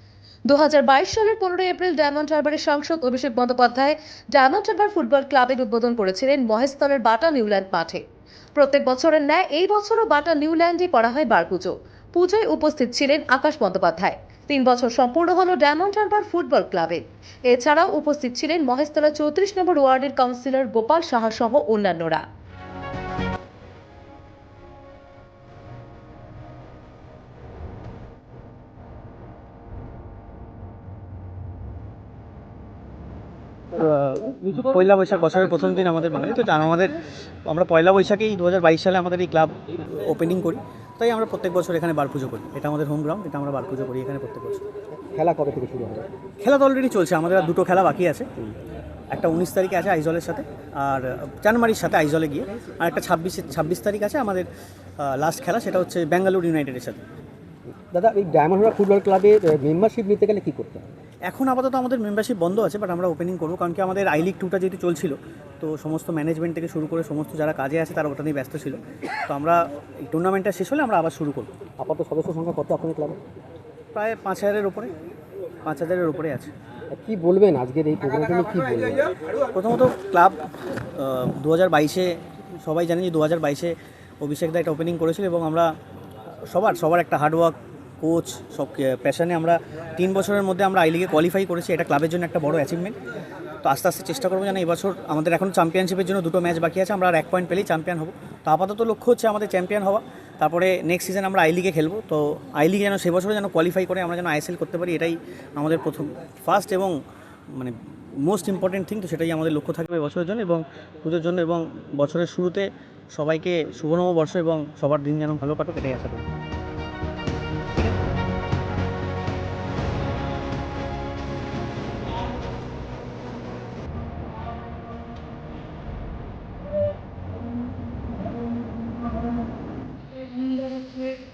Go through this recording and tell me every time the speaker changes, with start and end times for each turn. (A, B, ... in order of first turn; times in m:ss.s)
0:00.5-0:08.0 A
0:08.6-0:22.2 A
0:33.8-0:44.6 B
0:45.1-0:46.1 C
0:46.4-0:48.3 B
0:49.1-0:54.5 B
0:55.0-0:57.0 B
0:57.9-1:00.8 C
1:01.3-1:11.5 B
1:11.8-1:13.2 C
1:13.9-1:14.9 B
1:15.6-1:16.5 B
1:16.9-1:19.1 C
1:19.5-1:20.4 B
1:21.0-1:22.1 B
1:22.6-1:25.7 B
1:26.5-1:33.0 B
1:33.6-1:47.0 B
1:47.5-1:56.3 B